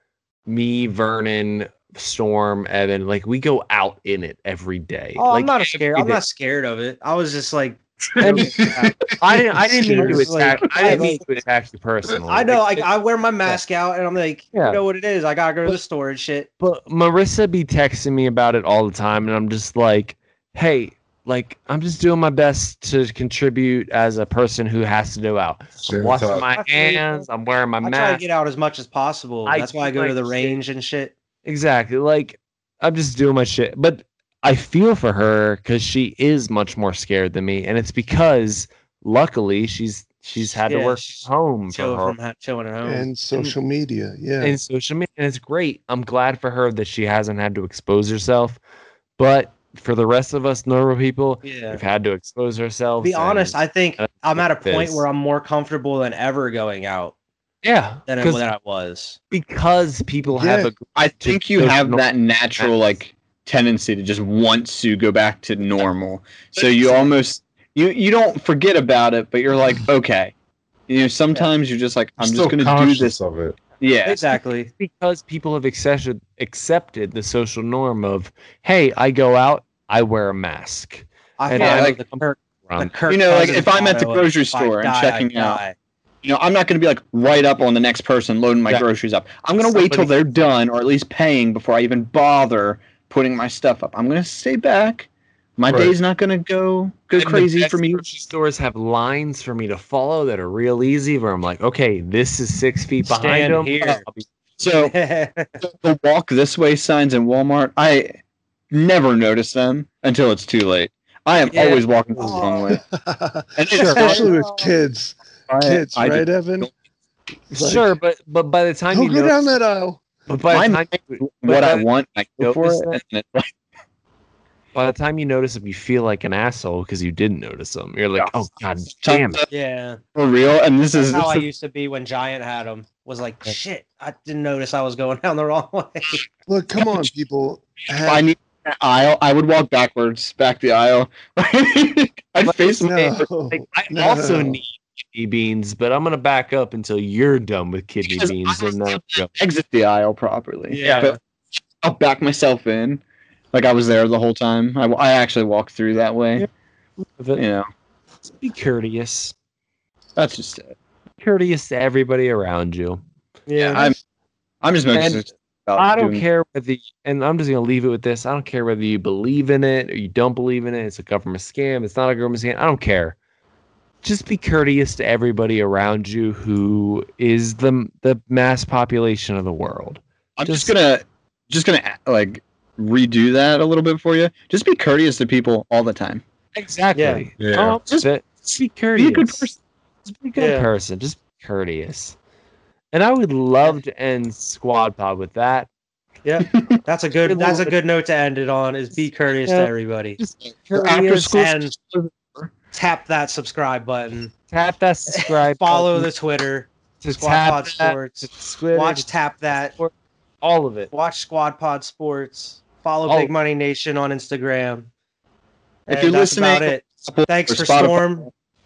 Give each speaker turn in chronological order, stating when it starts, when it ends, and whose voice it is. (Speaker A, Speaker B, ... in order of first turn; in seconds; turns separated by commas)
Speaker A: 0.5-6.2, Speaker B: 5.2-9.0, Speaker C: 8.2-9.6, Speaker A: 8.2-8.6, Speaker A: 9.1-12.9, Speaker D: 9.7-10.3, Speaker B: 9.9-11.2, Speaker C: 10.7-11.0, Speaker B: 12.3-16.5, Speaker A: 14.5-14.8, Speaker A: 16.6-28.2, Speaker C: 25.8-26.4, Speaker B: 26.4-27.3, Speaker B: 27.8-31.1, Speaker A: 29.5-30.6, Speaker A: 31.4-42.2, Speaker B: 40.6-43.5, Speaker D: 42.8-44.6, Speaker A: 44.4-48.6, Speaker A: 49.2-55.1, Speaker B: 51.4-51.8, Speaker B: 53.0-57.1, Speaker A: 57.6-58.4, Speaker B: 58.1-59.2, Speaker A: 59.3-62.0, Speaker D: 60.3-60.7, Speaker E: 61.0-70.3, Speaker E: 70.9-73.2, Speaker C: 72.2-73.6, Speaker E: 73.8-74.2, Speaker B: 74.0-74.7, Speaker A: 74.8-82.9, Speaker B: 81.4-85.8, Speaker E: 81.5-82.0, Speaker E: 83.1-85.6, Speaker E: 86.2-98.0, Speaker A: 89.6-90.2, Speaker C: 95.7-95.9, Speaker A: 97.2-104.3, Speaker B: 103.1-104.0, Speaker E: 104.6-104.9, Speaker B: 104.8-105.6, Speaker E: 105.6-108.2, Speaker E: 108.7-112.8, Speaker A: 111.5-112.5, Speaker B: 112.2-112.5, Speaker D: 112.7-116.7, Speaker E: 113.6-114.3, Speaker A: 113.7-114.7, Speaker E: 115.5-116.7, Speaker D: 117.5-118.0, Speaker A: 117.5-119.5, Speaker D: 118.9-120.0, Speaker A: 120.3-121.9, Speaker E: 120.5-123.5, Speaker A: 122.4-123.0, Speaker A: 124.7-129.4, Speaker E: 129.0-129.5, Speaker B: 129.5-130.0, Speaker E: 130.2-131.5, Speaker B: 130.9-136.2, Speaker D: 136.5-138.3, Speaker E: 138.1-143.3, Speaker A: 142.4-142.7, Speaker D: 142.8-144.6, Speaker A: 143.5-149.4, Speaker E: 148.1-151.2, Speaker B: 150.7-151.2, Speaker E: 151.8-153.0, Speaker E: 153.5-156.5, Speaker A: 157.0-157.4, Speaker E: 157.4-157.7, Speaker A: 158.2-159.3, Speaker E: 160.2-160.8, Speaker A: 161.2-163.0, Speaker B: 163.5-163.9, Speaker E: 163.6-164.0, Speaker E: 164.6-166.2, Speaker A: 164.9-165.2, Speaker A: 165.8-173.2, Speaker A: 174.0-180.7, Speaker E: 180.4-186.2, Speaker A: 186.6-189.5, Speaker B: 186.9-187.2, Speaker C: 187.4-187.8, Speaker E: 189.0-189.6, Speaker A: 190.0-192.2, Speaker B: 190.4-190.7, Speaker A: 192.9-195.7, Speaker B: 196.2-200.2, Speaker E: 196.5-196.8, Speaker A: 197.2-197.8, Speaker A: 199.5-201.4, Speaker E: 200.7-202.5, Speaker B: 201.3-201.7, Speaker B: 202.7-204.3, Speaker A: 204.5-206.1, Speaker B: 205.1-209.8, Speaker A: 207.0-209.1, Speaker A: 209.8-210.9, Speaker B: 210.9-214.9, Speaker A: 213.1-213.3, Speaker B: 215.9-218.3, Speaker E: 215.9-218.3